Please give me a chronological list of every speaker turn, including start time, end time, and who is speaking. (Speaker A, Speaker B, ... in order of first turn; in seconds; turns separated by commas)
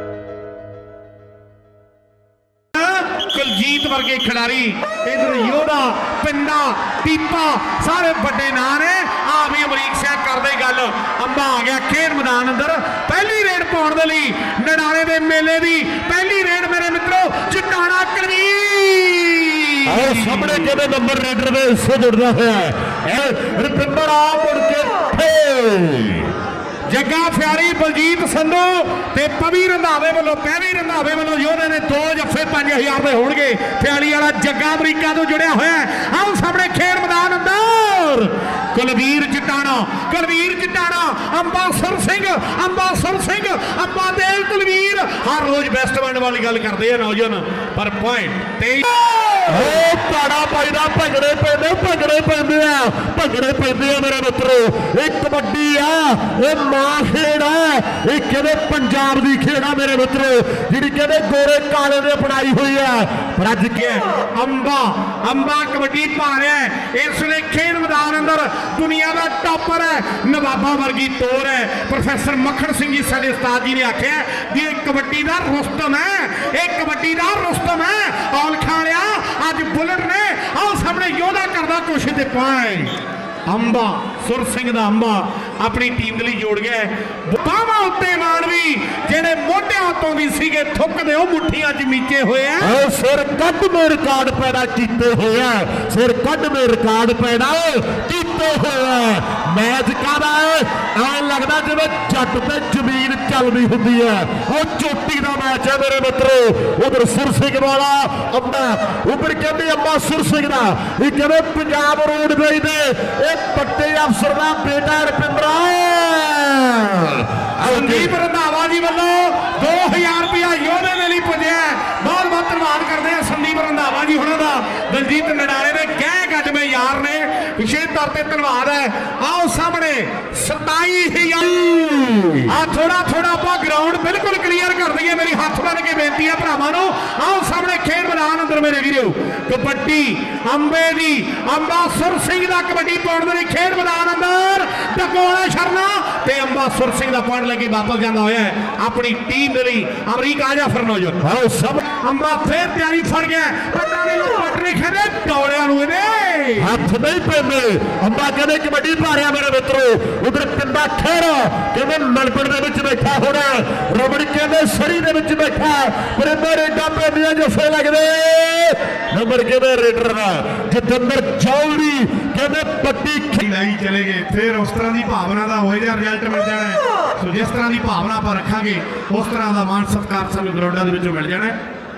Speaker A: 2.7-20.7, Speaker B: 19.9-26.3, Speaker A: 26.9-49.7, Speaker B: 49.5-64.0, Speaker A: 63.8-82.9, Speaker A: 83.5-92.7, Speaker B: 92.6-118.1, Speaker A: 117.6-131.6, Speaker B: 131.6-132.5, Speaker A: 132.5-151.2, Speaker B: 151.2-151.8, Speaker A: 151.9-156.8, Speaker B: 156.6-173.4, Speaker A: 173.4-181.6